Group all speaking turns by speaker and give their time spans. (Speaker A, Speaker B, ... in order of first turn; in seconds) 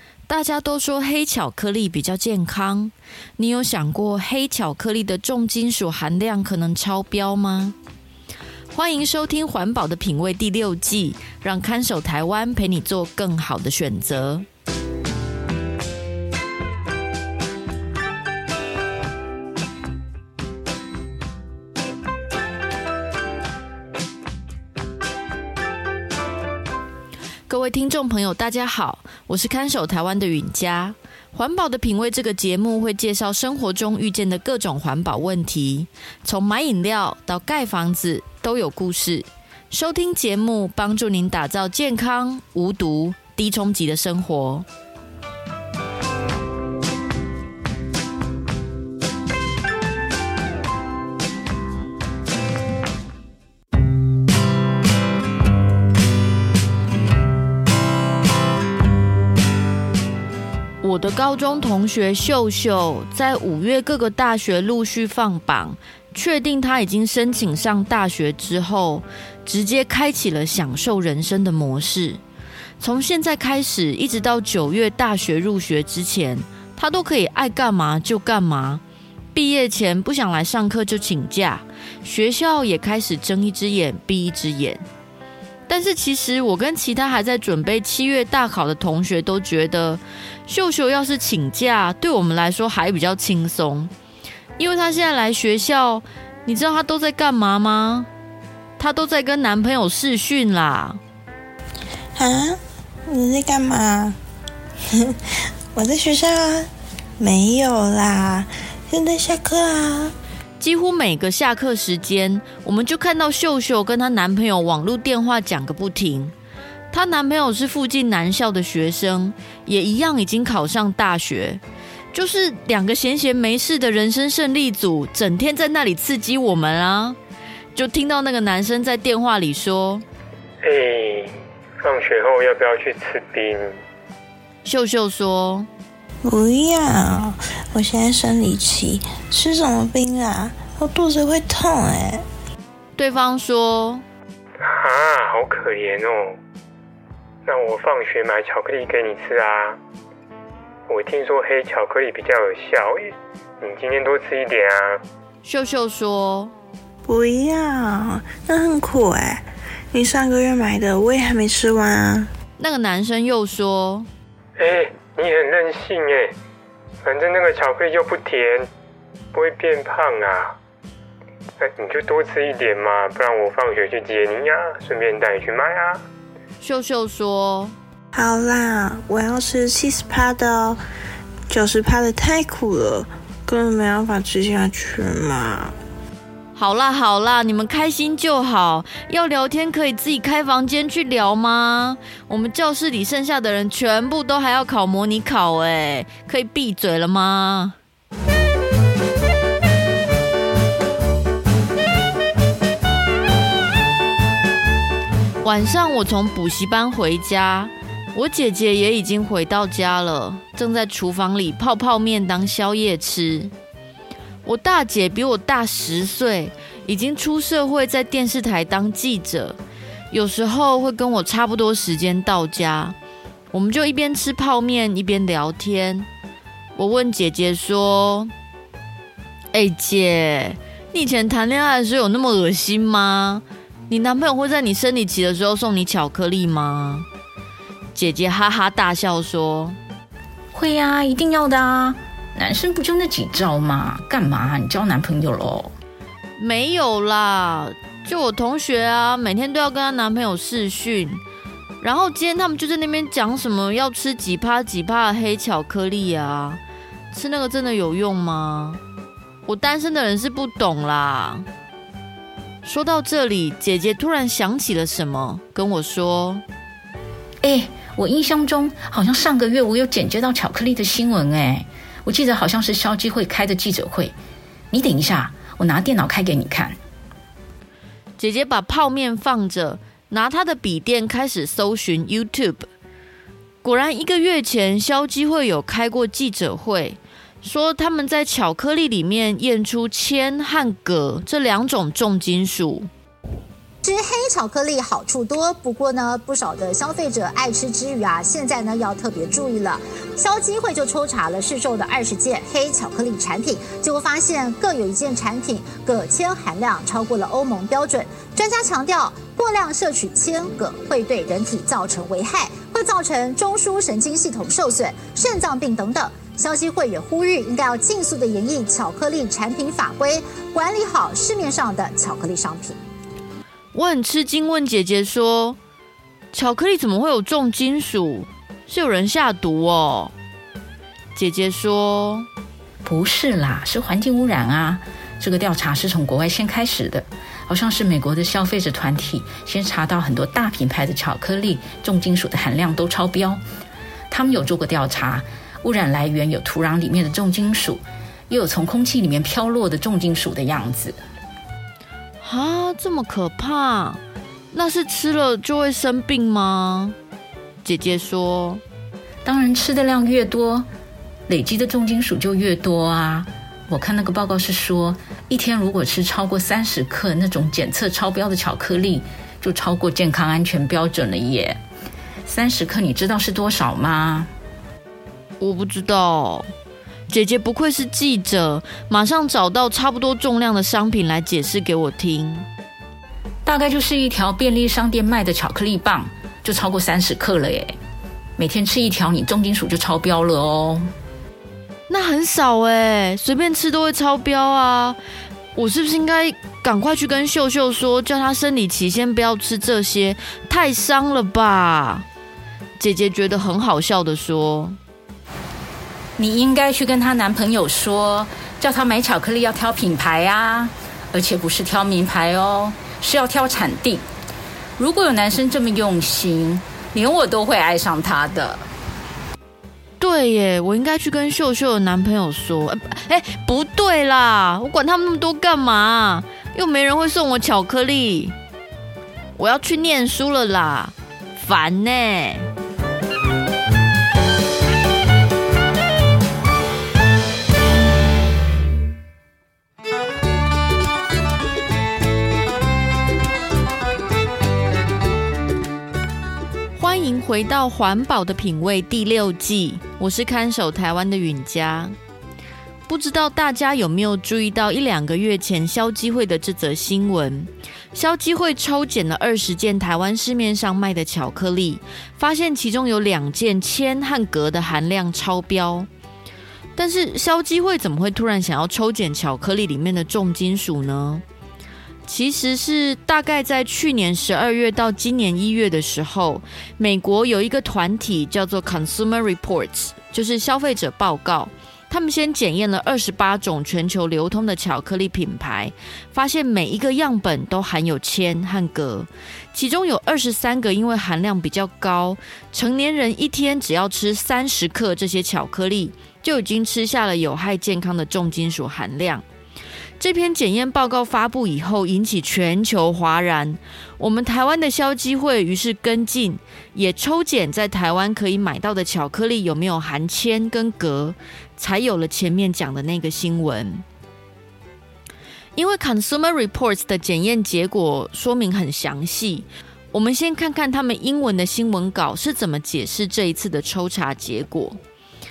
Speaker A: 0.3-7.8, 8.7-14.5, 27.5-44.7, 60.8-72.2, 72.8-78.8, 79.3-84.8, 85.7-93.9, 94.6-98.1, 98.8-101.0, 110.6-116.3, 116.9-121.6, 122.1-127.2, 127.8-130.1, 134.7-135.7, 143.0-144.1, 155.4-156.5, 162.6-164.1, 176.6-177.8, 186.6-197.8, 205.4-213.5, 214.4-219.6, 220.1-223.0, 223.5-226.1, 226.8-228.3, 229.5-237.1, 237.9-239.8, 246.4-251.2, 251.8-256.6, 257.1-258.8, 259.5-261.5, 262.6-266.4, 278.2-282.7, 283.6-292.9, 323.7-325.6, 326.3-330.1, 331.2-332.3, 352.2-354.0, 354.5-357.0, 357.6-358.6, 375.4-376.5, 377.1-382.5, 391.9-395.0, 395.6-402.1, 402.8-404.8, 420.0-428.4, 429.4-432.5, 446.8-451.9, 452.9-465.9, 466.8-471.2, 472.1-499.2, 500.0-513.8, 515.6-524.8
Speaker B: 102.2-104.2, 105.8-110.1, 136.2-142.2, 157.1-162.3, 178.1-180.8, 181.5-185.8
Speaker C: 130.6-131.3, 131.8-133.7, 144.6-146.3, 147.5-149.8, 150.9-155.0, 164.6-166.3, 167.0-168.7, 169.3-170.5, 171.6-176.0
Speaker D: 240.5-245.7, 267.4-274.2, 274.7-276.8, 332.8-343.4, 344.1-351.0, 359.2-360.7, 361.3-371.6, 372.3-374.3, 383.4-387.8, 388.4-390.9, 406.2-414.0, 414.8-418.6
Speaker E: 293.8-322.8